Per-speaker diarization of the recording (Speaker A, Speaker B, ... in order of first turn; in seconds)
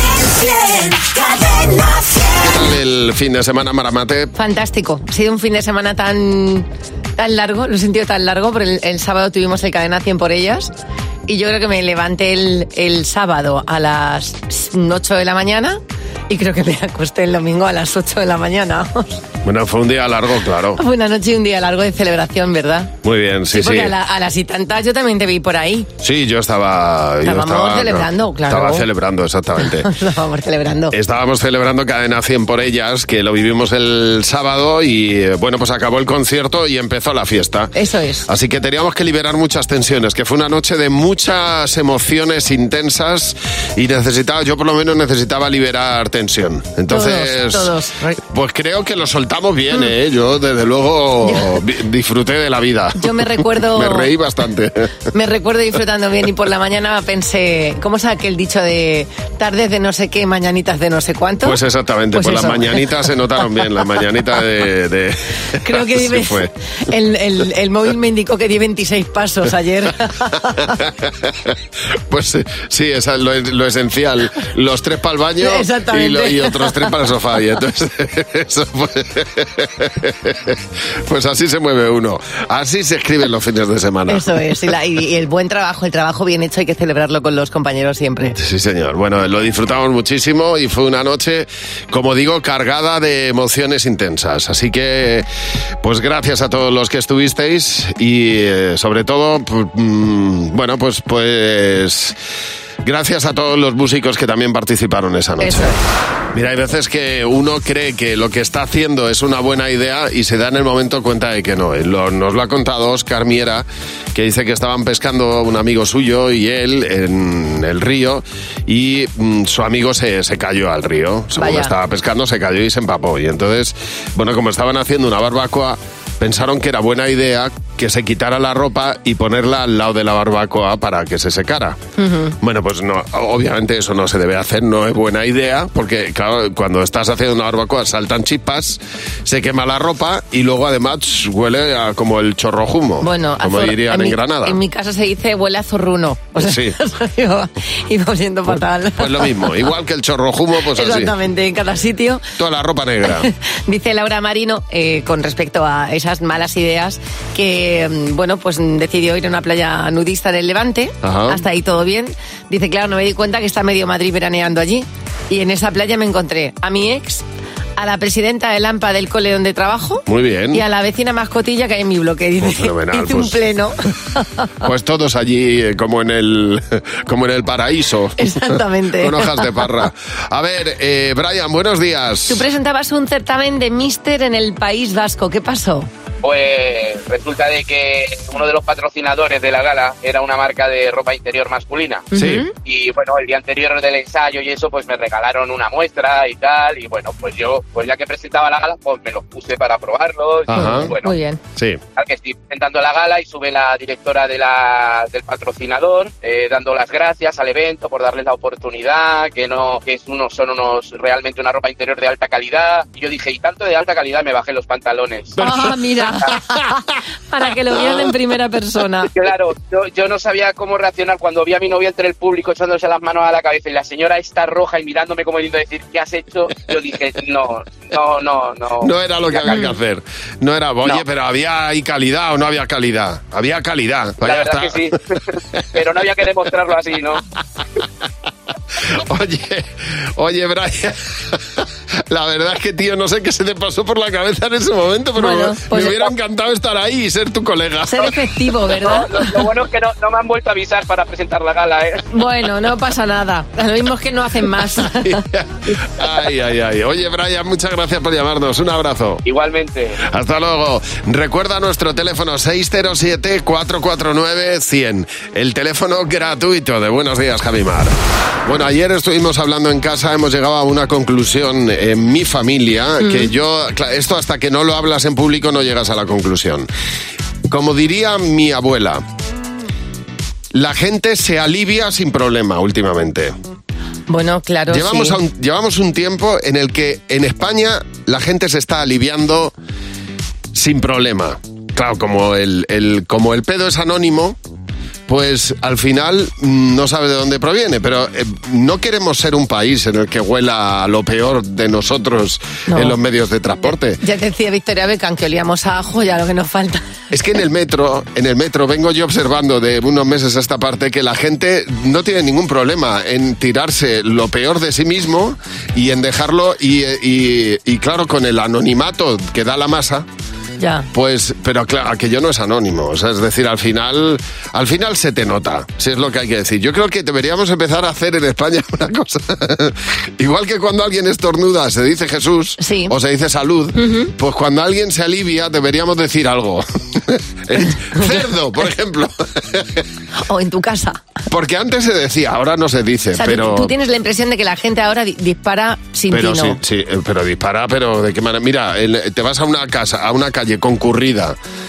Speaker A: 0.2-2.1
Speaker B: 2.3-4.3, 19.4-20.8, 23.0-23.9, 26.0-29.9, 30.9-37.7, 38.2-54.9, 61.4-66.5, 70.8-71.5, 72.1-84.5, 88.3-95.3, 95.8-102.2, 102.8-105.7, 106.3-131.8, 132.4-144.6, 146.3-146.8, 149.0-151.1, 152.4-153.3, 161.0-161.4, 170.1-170.6, 172.4-173.4, 174.6-182.4, 192.1-192.4, 200.5-200.9, 228.8-234.9, 238.8-248.2, 254.9-259.2, 260.0-267.9, 268.4-276.7, 277.5-279.0, 280.5-283.3, 284.7-289.5, 290.5-294.4, 295.1-304.0, 307.1-320.1, 320.9-339.8, 341.3-343.7, 346.1-351.4
Speaker C: 4.3-6.7, 7.2-10.7, 11.3-19.2, 20.8-22.9, 23.5-25.9, 27.2-28.9, 29.6-30.9, 37.7-38.2, 46.9-48.1, 51.2-51.5, 53.0-54.1, 55.1-61.6, 62.1-62.9, 65.6-70.8, 75.4-76.7, 84.1-88.4, 105.4-105.8, 121.3-121.7, 132.0-132.3, 143.0-149.5, 150.7-152.2, 153.3-167.2, 167.8-174.5, 178.2-179.6, 182.3-185.9, 192.1-192.5, 200.5-201.4, 215.4-216.7, 217.3-219.1, 229.4-229.7, 245.2-246.1, 247.9-249.4, 252.1-255.2, 273.0-273.3, 284.1-285.2, 302.7-303.0, 304.0-306.8, 320.6-320.9, 332.6-332.9, 333.8-334.1, 337.9-338.2, 340.2-341.0, 343.1-346.6
Speaker D: 186.2-201.1, 201.9-215.4, 219.1-229.7, 234.2-235.0, 235.7-237.2, 248.8-252.1, 259.2-260.0